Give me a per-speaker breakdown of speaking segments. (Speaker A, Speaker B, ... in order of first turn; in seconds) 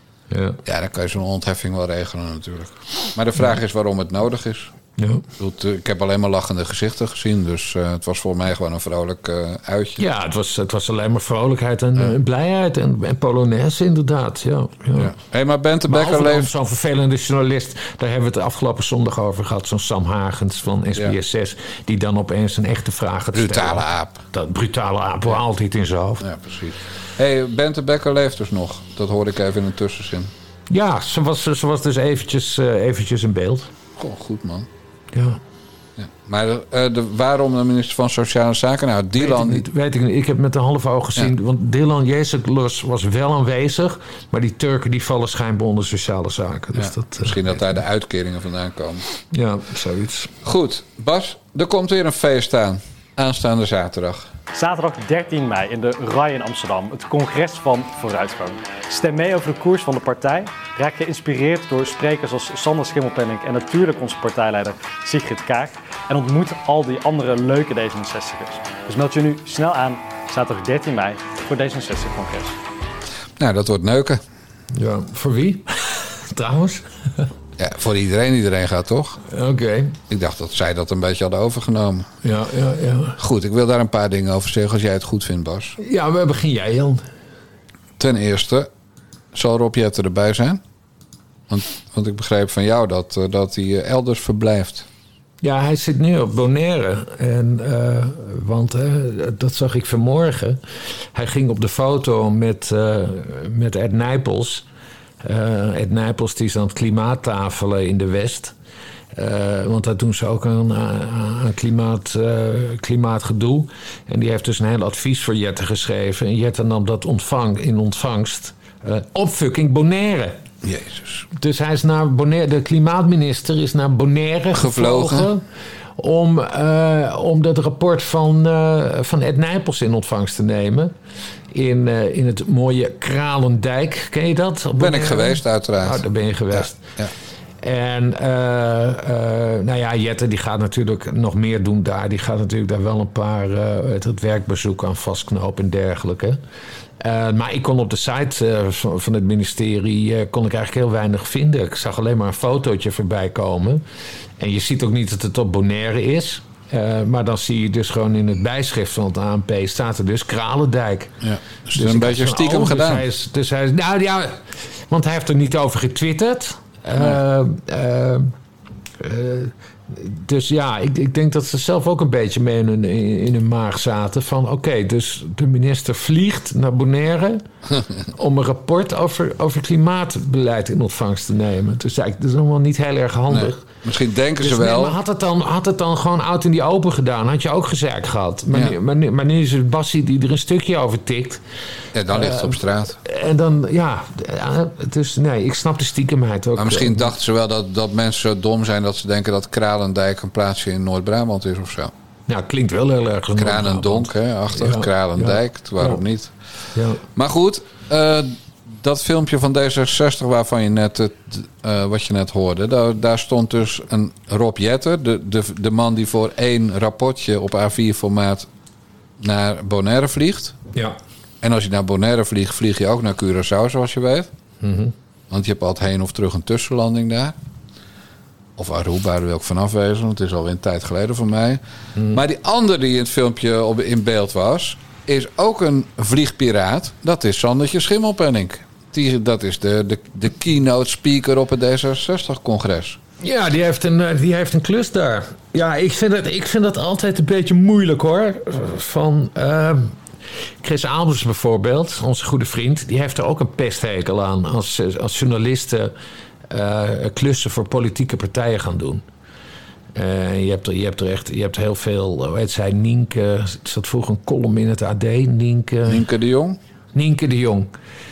Speaker A: 0.3-0.6, 5.0-5.2, 10.0-15.1, 15.9-26.3, 30.7-33.7, 35.1-35.4, 39.2-47.5, 49.3-50.3, 74.7-77.3, 79.3-80.0, 82.2-83.2, 85.8-87.0, 95.4-100.6, 101.1-104.6, 105.2-108.5, 109.2-120.4, 121.4-125.4, 126.0-130.9, 131.5-136.8, 137.6-146.4, 147.0-153.8, 154.4-161.2, 161.8-168.3, 169.0-177.4, 178.1-183.7, 184.4-191.4, 192.1-197.1, 202.3-206.0, 206.8-207.0, 224.6-224.9, 232.0-232.2, 243.2-249.9, 250.6-255.9, 256.5-259.0, 259.9-266.0, 266.9-267.7
Speaker B: 0.7-4.7, 5.4-10.1, 14.9-16.5, 23.3-24.2, 26.2-30.3, 34.0-34.7, 36.0-39.7, 46.8-49.0, 50.4-54.3, 73.4-74.2, 77.6-79.2, 80.1-82.1, 83.2-85.8, 88.0-88.7, 89.3-90.6, 91.5-94.9, 120.6-121.3, 124.5-125.3, 134.8-137.1, 161.2-163.1, 183.3-185.0, 188.5-188.8, 191.9-193.0, 196.6-201.9, 203.4-206.3, 207.2-218.5, 219.2-220.6, 221.4-224.3, 225.3-227.4, 228.6-243.0, 265.9-266.6
Speaker C: 54.5-72.6